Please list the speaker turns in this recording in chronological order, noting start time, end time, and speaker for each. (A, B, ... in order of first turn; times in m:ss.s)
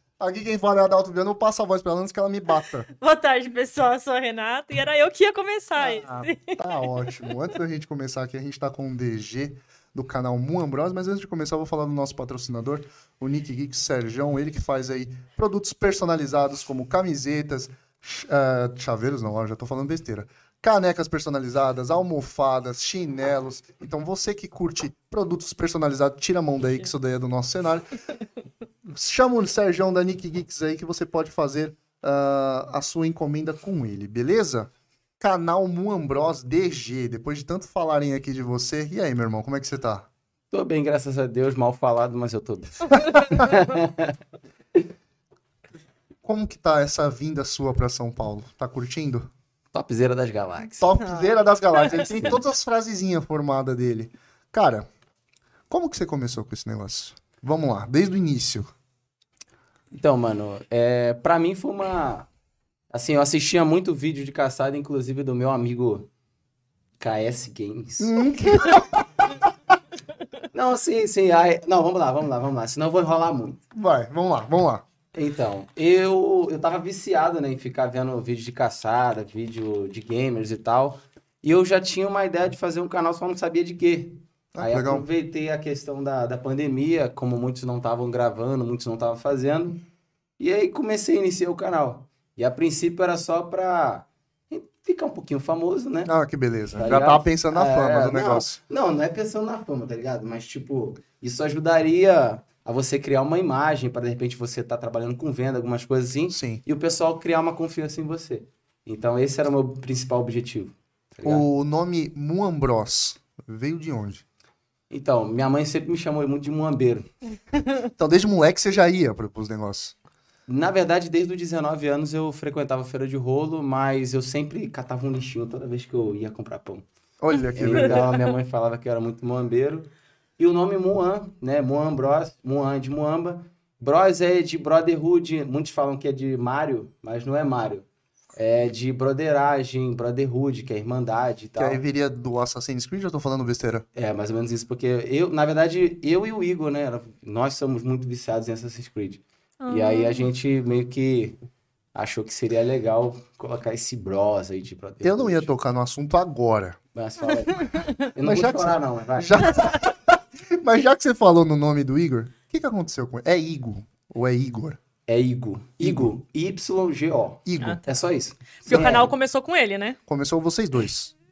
0:00.2-0:02.9 A
0:03.0-0:06.8 B
0:05.8-0:28.0 A
0:28.8-0:40.0 A
0:40.5-0:44.2 C
0:46.2-0:49.3 A
0:49.7-0:50.9 C
0:50.8-0:54.9 A
0:51.0-0:51.3 B
0:55.7-0:58.7 A
0:59.9-1:02.3 C
1:02.9-1:06.1 C
1:07.0-1:08.2 C
1:08.0-1:09.1 A
1:10.5-1:13.6 C
1:13.7-1:14.8 A
1:15.1-1:29.8 C
1:24.5-1:25.0 A
1:30.4-1:36.1 C
1:36.0-1:38.6 A
1:36.8-1:51.4 C
1:46.3-1:46.6 A
1:51.2-1:54.2 A
1:54.9-1:57.1 C
1:58.0-1:59.9 A
2:00.5-2:06.8 C
2:07.2-2:08.1 A
2:07.5-2:21.8 C
2:21.6-2:23.8 A
2:23.9-2:31.4 C
2:29.6-2:30.3 B
2:31.9-2:35.5 C
2:35.0-2:36.8 A
2:36.9-2:39.6 C
2:38.2-2:44.8 A
2:45.1-2:49.1 C
2:45.8-2:46.1 A
2:47.4-2:47.9 A
2:48.6-2:50.0 B
2:48.7-2:49.0 A
2:50.1-2:51.1 A